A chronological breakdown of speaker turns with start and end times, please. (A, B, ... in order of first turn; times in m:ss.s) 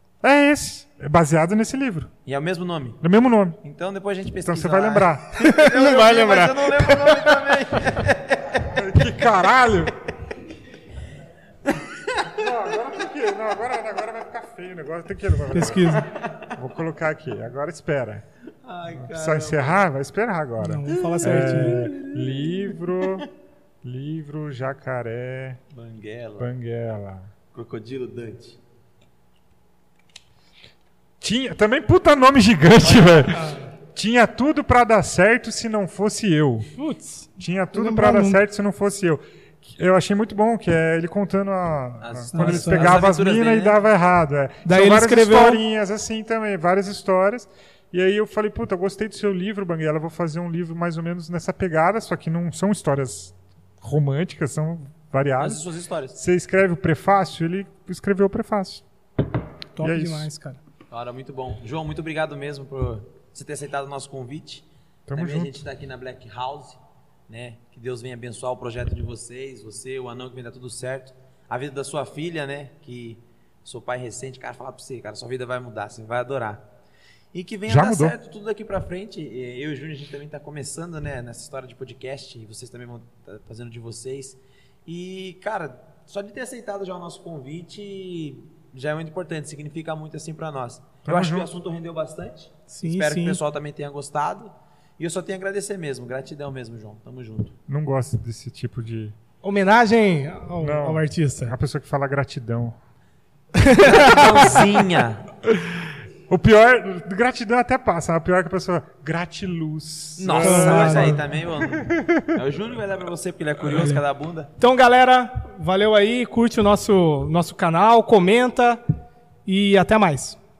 0:00.2-0:02.1 A
0:02.3-0:03.0 B
0:03.0-0:03.6 A
0:03.6-0:08.7 B
0:04.4-0:05.3 A
0:05.4-0:07.6 C
0:08.6-0:10.0 A
0:11.7-0:12.3 B
0:12.3-0:18.2 A
0:15.5-0:16.1 C
0:16.0-0:16.5 B
0:18.6-0:19.8 B
0:19.0-0:23.3 A
0:20.6-0:21.8 C
0:20.9-0:23.2 B
0:23.8-0:25.6 A
0:25.7-0:26.5 B
0:26.4-0:27.3 A
0:27.5-0:28.6 B
0:31.2-0:36.7 A
0:32.8-0:33.5 B
0:36.8-0:38.4 C
0:37.4-0:55.6 A
0:42.0-0:43.8 B
0:42.3-0:42.9 C
0:44.6-0:45.6 C
0:55.4-0:56.2 B
0:56.2-0:58.8 A
0:59.8-1:00.6 C
0:59.8-1:00.3 A
1:00.9-1:16.6 B
1:05.1-1:05.6 A
1:17.3-1:37.6 B
1:17.7-1:18.2 A
1:31.1-1:31.5 A
1:32.7-1:33.4 C
1:37.7-1:39.2 A
1:39.4-1:41.6 C
1:40.6-1:42.8 A
1:43.6-1:44.6 C
1:43.8-1:45.2 B
1:45.4-1:52.4 A
1:50.2-1:54.5 B
1:50.4-1:51.3 C
1:53.7-1:54.0 C
1:54.6-1:58.8 C
1:59.5-2:00.4 C